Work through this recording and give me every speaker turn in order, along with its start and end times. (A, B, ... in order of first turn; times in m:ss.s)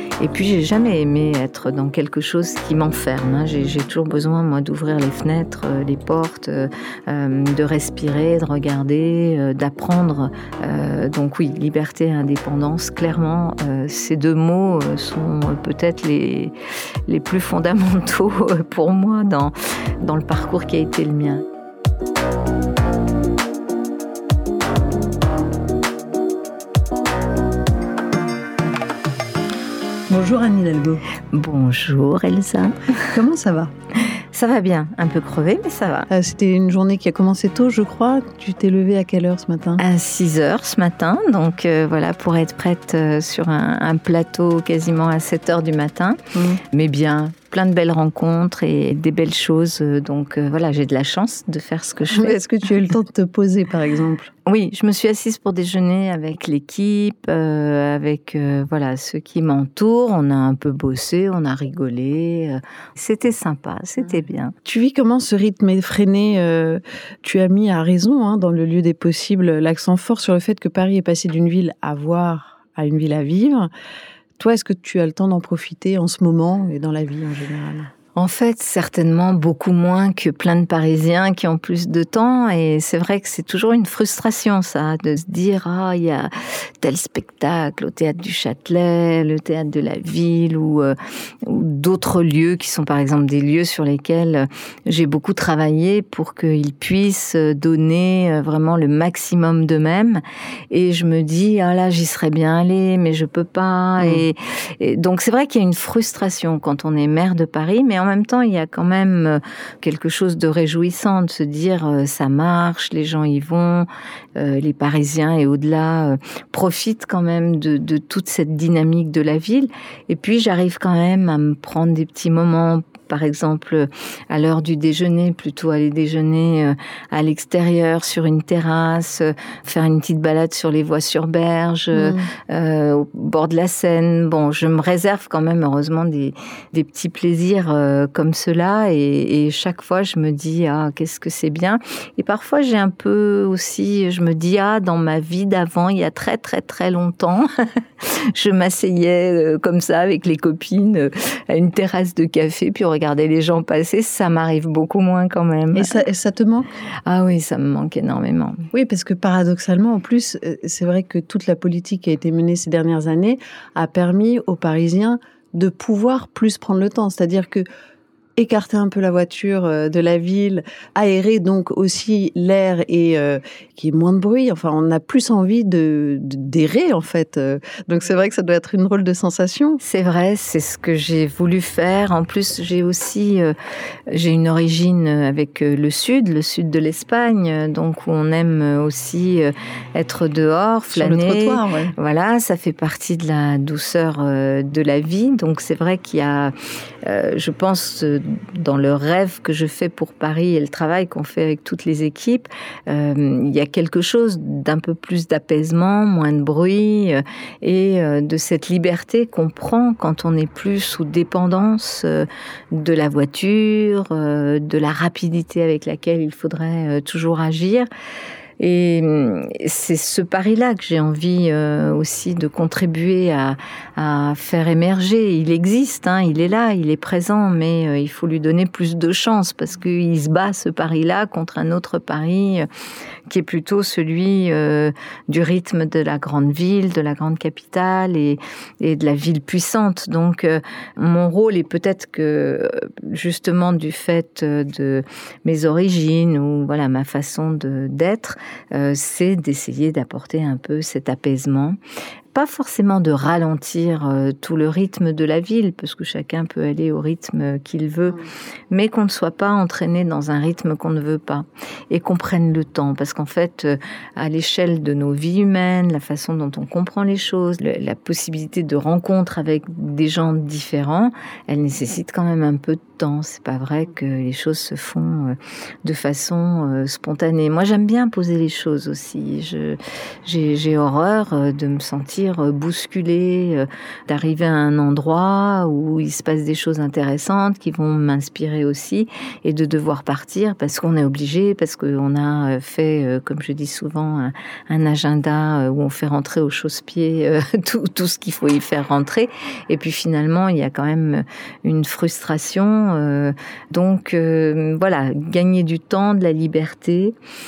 0:00.2-0:16.5 A
0:17.1-0:21.4 A
0:30.1-0:31.0 B
0:31.3-0:33.1 A
0:33.0-0:33.7 B
0:34.3-0:36.1 A
0:36.1-0:39.8 B
0:39.8-0:46.2 A
0:46.3-0:46.6 B
0:46.7-0:52.4 A
0:52.1-0:54.3 B
0:54.4-1:04.5 A
1:04.6-1:13.7 B
1:14.4-1:17.9 B
1:18.1-2:27.5 A
1:44.0-1:44.2 B
2:11.9-2:12.3 B
2:28.0-2:36.0 A
2:35.7-2:36.7 B
2:37.0-2:38.7 A
2:38.7-2:47.6 B
2:48.4-2:59.8 B
2:59.8-3:03.5 A
3:04.1-3:16.5 A
3:10.9-3:11.9 B
3:17.0-3:37.9 A
3:38.6-3:52.7 A
3:53.3-4:11.8 A
4:12.3-5:07.2 A